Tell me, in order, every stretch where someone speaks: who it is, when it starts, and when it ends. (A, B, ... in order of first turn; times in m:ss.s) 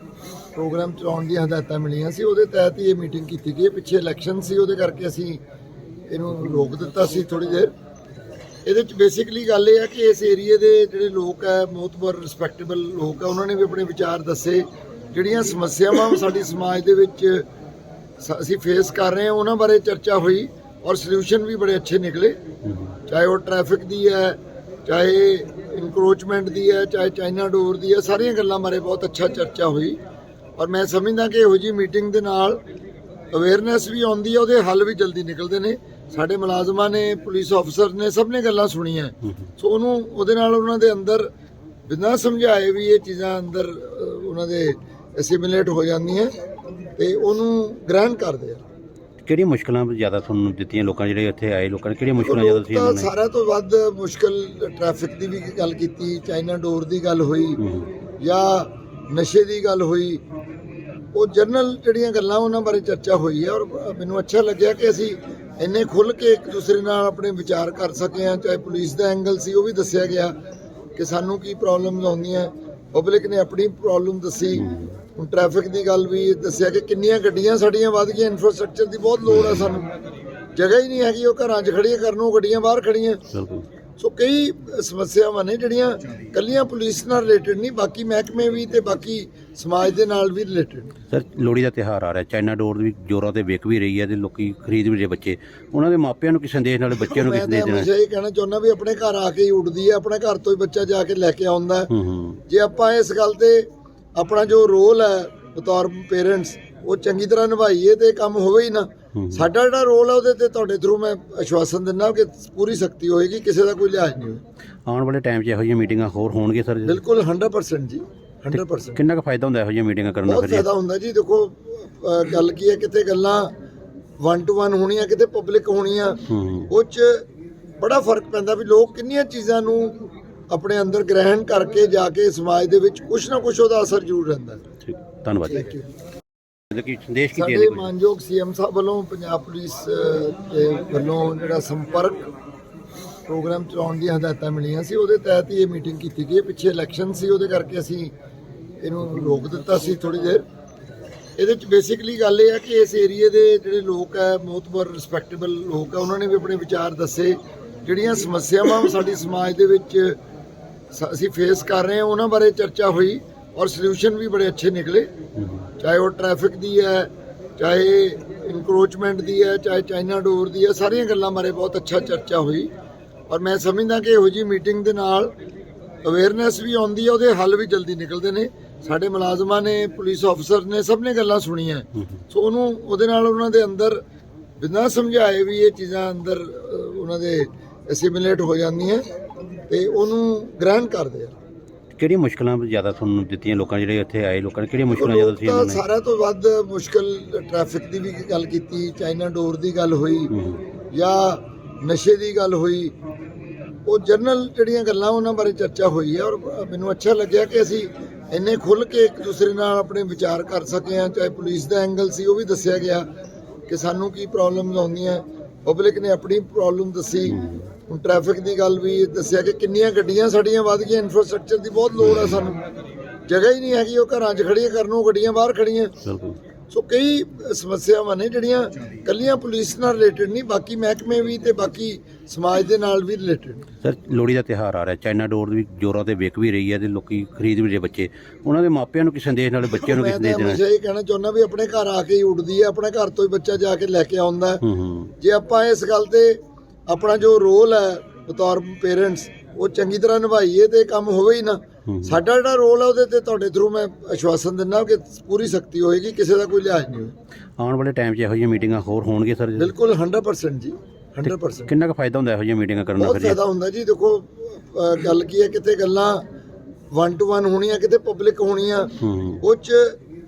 0:00.5-0:05.4 A
0:06.1-0:07.7 A
0:08.6-0:17.4 A
0:18.2-0:22.4 A
0:23.1-0:30.0 A
0:30.6-0:32.6 A
0:33.3-0:41.3 A
0:41.9-0:46.3 A
0:47.0-0:48.6 A
0:49.2-0:53.1 B
0:52.2-0:57.6 A
0:57.6-0:57.9 B
0:58.2-1:00.2 A
1:01.1-1:10.3 A
1:11.0-1:19.9 A
1:14.6-1:14.9 B
1:19.3-1:19.7 B
1:20.6-1:23.2 A
1:23.3-1:23.6 B
1:24.0-1:30.9 A
1:31.1-1:37.9 B
1:37.0-1:41.9 A
1:41.9-1:42.4 B
1:42.5-1:54.4 A
1:49.2-1:49.4 B
1:54.9-1:57.0 B
1:56.8-1:59.0 A
1:58.5-2:00.6 B
2:00.2-2:03.5 A
2:04.2-2:07.2 A
2:06.3-2:06.7 B
2:07.8-2:14.6 A
2:14.8-2:15.7 B
2:15.5-2:15.9 A
2:16.7-2:17.9 B
2:17.3-2:22.3 A
2:23.3-2:28.1 A
2:28.8-2:30.4 A
2:31.4-2:40.2 A
2:40.9-2:45.1 A
2:45.4-2:45.6 B
2:45.8-2:52.7 A
2:53.3-2:55.3 A
2:56.0-3:04.0 A
3:04.6-3:09.0 A
3:09.7-3:11.3 A
3:11.9-3:15.8 B
3:14.9-3:20.3 A
3:20.3-3:20.6 B
3:20.9-3:22.9 A
3:23.8-3:33.1 A
3:33.7-3:42.6 A
3:37.4-3:37.6 B
3:42.0-3:42.5 B
3:43.3-3:46.0 A
3:46.0-3:46.4 B
3:46.7-3:53.6 A
3:53.8-4:00.6 B
3:59.6-4:04.6 A
4:04.6-4:05.1 B
4:05.2-4:17.1 A
4:11.9-4:12.2 B
4:17.6-4:19.7 B
4:19.6-4:21.7 A
4:21.2-4:23.4 B
4:23.0-4:26.2 A
4:26.9-4:30.0 A
4:29.0-4:29.4 B